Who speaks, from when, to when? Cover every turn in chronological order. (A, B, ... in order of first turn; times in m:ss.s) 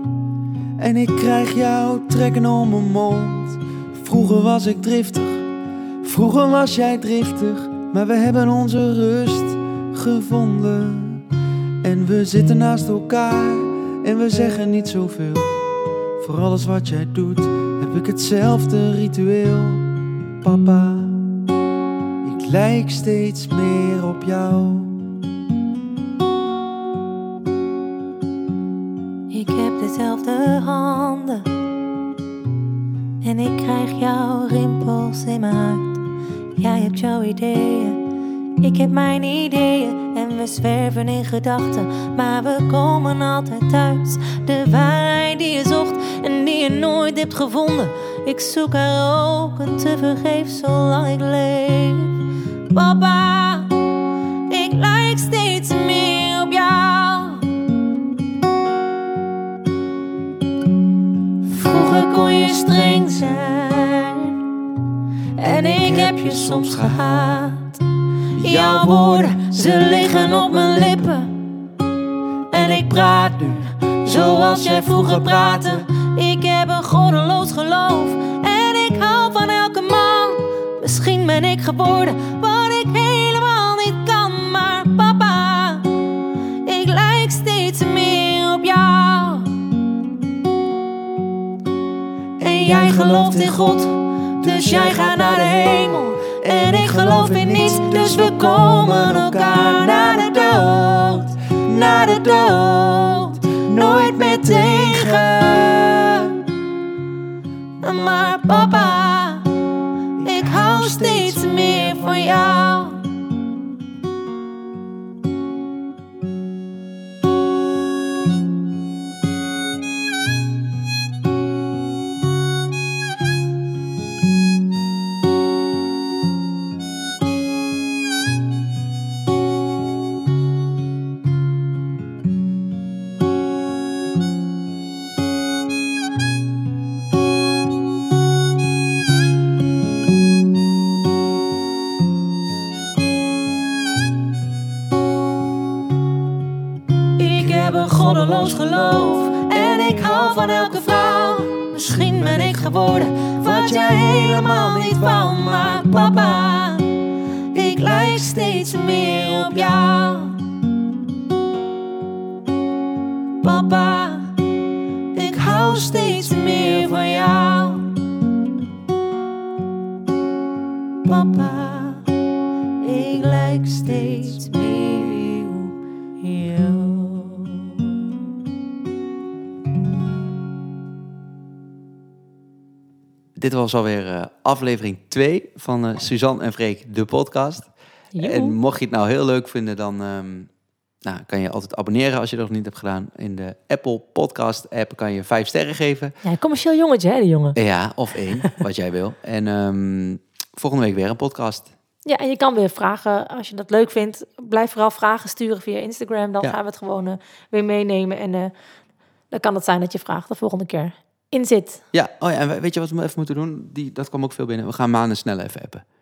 0:00.8-0:05.4 A
0:06.0-0:11.2 A
0:11.8-0:15.6 A
0:16.2-0:21.3 A
0:22.2-0:25.0 A
0:29.3-0:31.5 B
0:33.2-0:36.0 B
0:36.6-0:38.0 B
0:38.6-0:53.7 B
0:54.5-0:57.6 B
1:01.4-1:04.4 B
1:05.4-1:07.8 B
1:05.6-1:06.9 A
1:08.4-1:11.4 B
1:08.4-1:09.0 A
1:12.5-1:25.9 B
1:14.6-1:15.5 A
1:26.6-1:29.7 B
1:32.4-1:46.5 B
1:37.2-1:38.0 A
1:47.8-1:49.6 B
1:50.2-1:53.1 B
2:27.2-2:37.0 B
2:37.5-2:40.5 B
2:43.4-2:44.6 B
2:45.1-2:48.1 B
2:51.0-2:52.1 B
2:52.8-2:58.2 B
3:03.4-3:07.7 A
3:08.1-3:08.6 B
3:08.2-3:10.5 A
3:11.0-3:16.2 A
3:16.2-3:17.6 B
3:17.6-3:21.7 A
3:22.0-3:28.5 B
3:29.3-3:31.8 B
3:31.9-3:35.8 A